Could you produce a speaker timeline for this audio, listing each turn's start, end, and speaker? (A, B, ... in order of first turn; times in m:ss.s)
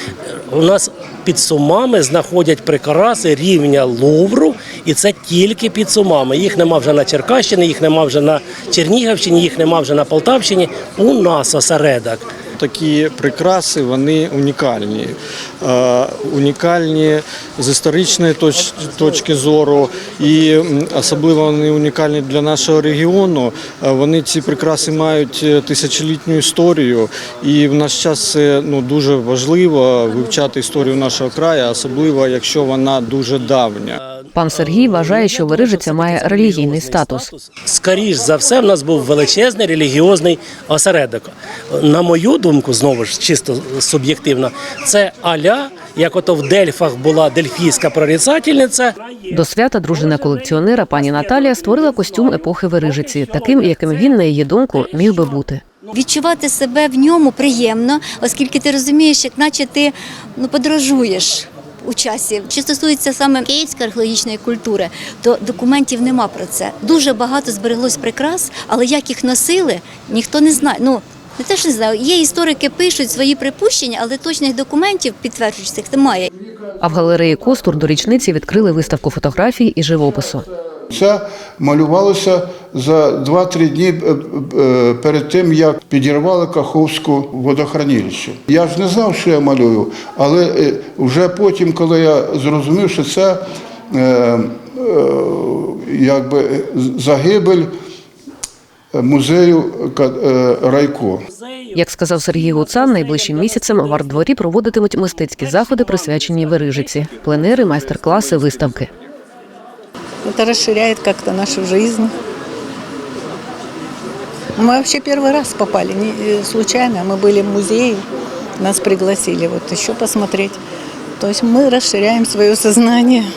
0:00.5-0:12.3 A
0:12.6-0:34.0 B
0:34.3-0:37.3 C
0:34.6-0:49.3 A
0:49.3-0:55.6 C
0:55.9-1:16.3 D
1:16.8-1:20.5 C
1:20.9-1:37.7 E
1:38.9-1:41.2 E
1:41.8-1:48.9 C
1:50.2-1:52.1 F
1:54.6-1:58.0 F
1:58.6-2:00.6 F
2:01.2-2:03.2 F